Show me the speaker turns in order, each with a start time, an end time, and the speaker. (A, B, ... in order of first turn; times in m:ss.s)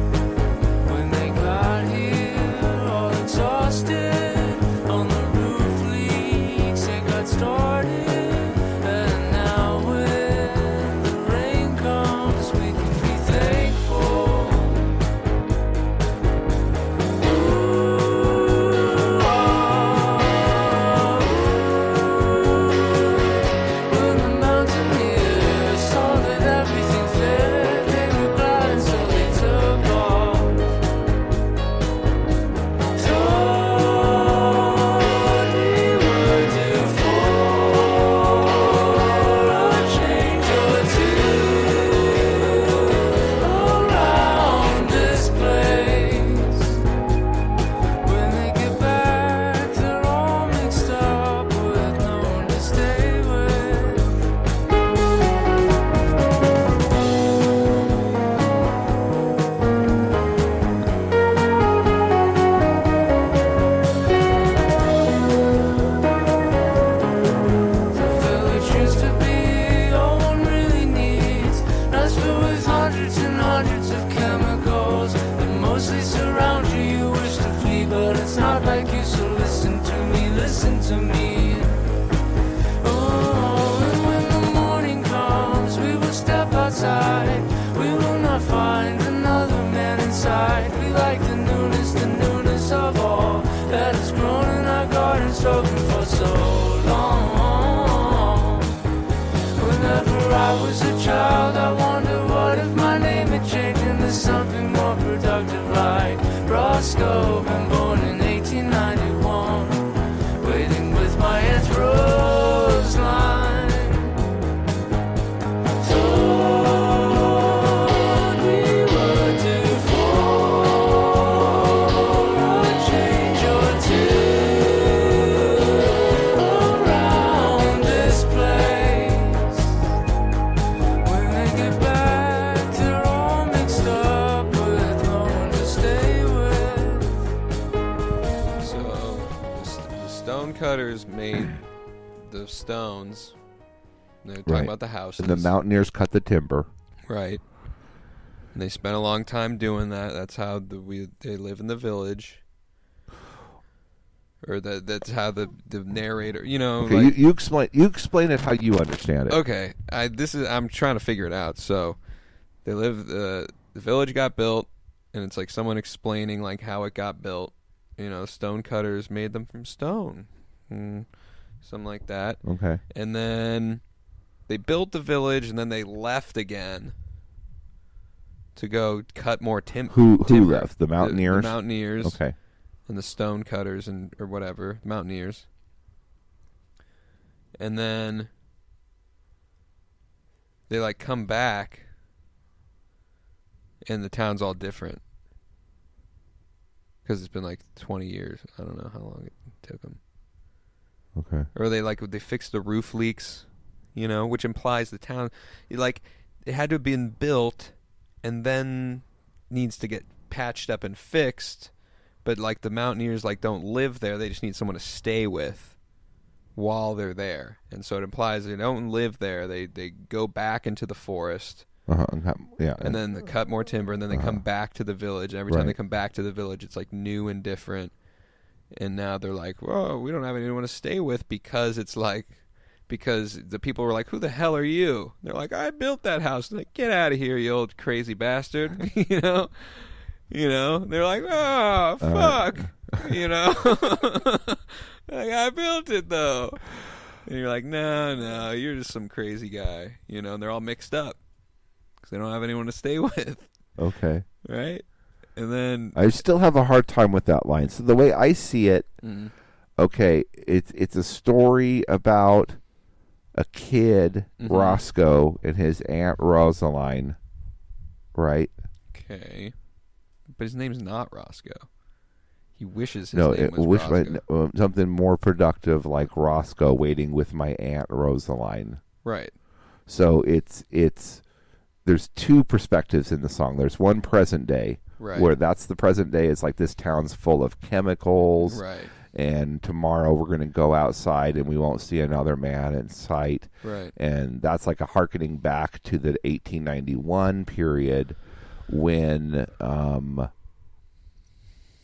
0:00.8-0:14.9 A
0:17.1-0:30.8 A
0:32.9-0:46.8 A
0:48.0-0:54.2 A
1:07.9-1:21.9 A
1:22.8-1:38.8 A
1:39.6-1:54.2 A
1:55.8-2:09.9 A
2:11.0-2:17.3 A
2:18.6-2:23.4 B
2:24.2-2:25.5 B
2:24.4-2:26.7 C
2:27.1-2:27.4 B
2:28.5-2:32.4 B
2:34.4-2:37.1 B
2:36.8-2:39.4 C
2:39.3-2:42.0 B
2:42.6-2:51.1 B
2:51.6-2:53.8 B
2:52.4-2:52.8 C
2:54.5-2:56.9 B
2:58.5-3:02.3 B
2:59.9-3:02.3 C
3:02.8-3:05.4 B
3:07.6-3:08.3 B
3:10.7-3:11.9 B
3:13.8-3:15.0 B
3:17.0-3:20.0 B
3:21.1-3:21.5 C
3:21.5-3:31.7 B
3:32.2-3:35.8 B
3:36.5-3:41.6 B
3:41.9-3:43.0 C
3:42.8-3:47.9 B
3:44.1-3:44.4 C
3:45.5-3:45.8 C
3:48.7-4:11.2 B
4:02.0-4:03.1 C
4:12.0-4:13.5 B
4:13.8-4:14.2 C
4:14.4-4:16.1 B
4:15.9-4:18.9 C
4:19.0-4:19.3 B
4:19.8-4:22.6 C
4:23.3-4:27.2 C
4:24.4-4:24.8 B
4:28.1-4:28.5 C
4:28.9-4:29.5 B
4:30.4-4:31.7 B
4:32.6-4:34.2 B
4:33.1-4:38.8 C
4:39.0-4:39.3 B
4:39.9-4:41.2 C
4:41.8-5:00.3 C
4:45.0-4:45.3 B
4:48.4-4:48.9 B
4:53.6-4:53.9 B